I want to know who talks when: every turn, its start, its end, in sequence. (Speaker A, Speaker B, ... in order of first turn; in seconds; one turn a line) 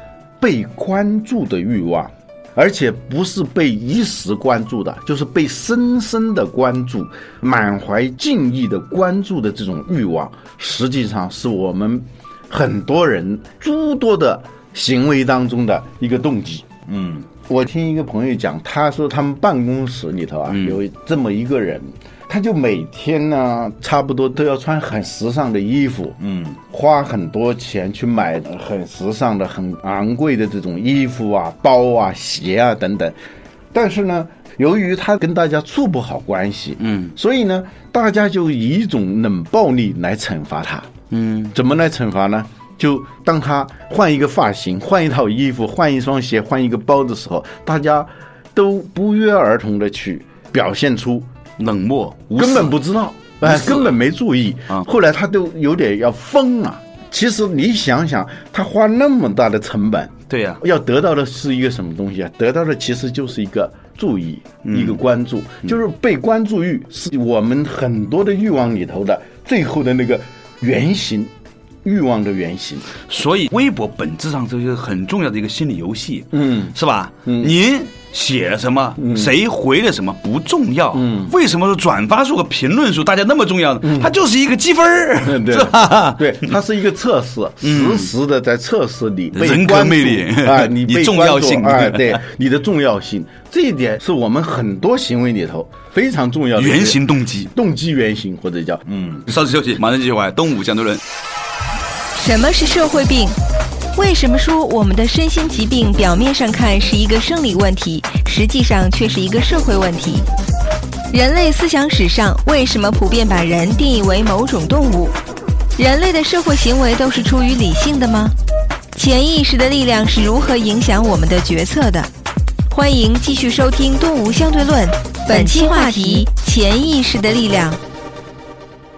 Speaker A: 0.4-16.7
Speaker B: 16.9-17.3
Speaker A: 17.4-33.1
Speaker B: 20.5-20.8
Speaker B: 26.2-26.6
Speaker A: 33.7-40.9
Speaker B: 36.8-37.1
Speaker B: 41.1-41.5
Speaker A: 41.5-51.3
Speaker B: 51.6-52.7
Speaker A: 52.4-71.3
Speaker B: 53.4-53.9
Speaker B: 60.3-60.6
Speaker B: 64.6-65.0
Speaker A: 71.8-72.9
Speaker B: 73.0-86.5
Speaker A: 76.3-76.7
Speaker A: 77.2-77.5
Speaker A: 79.0-79.3
Speaker A: 80.9-81.3
Speaker A: 83.8-84.1
Speaker A: 85.2-97.0
Speaker B: 87.6-88.1
Speaker B: 89.3-92.2
Speaker B: 96.5-97.5
Speaker A: 97.5-98.8
Speaker B: 98.9-101.0
Speaker C: 102.1-103.3
Speaker C: 103.9-110.3
Speaker C: 111.1-115.2
Speaker C: 115.8-118.3
Speaker C: 118.9-122.1
Speaker C: 122.7-127.8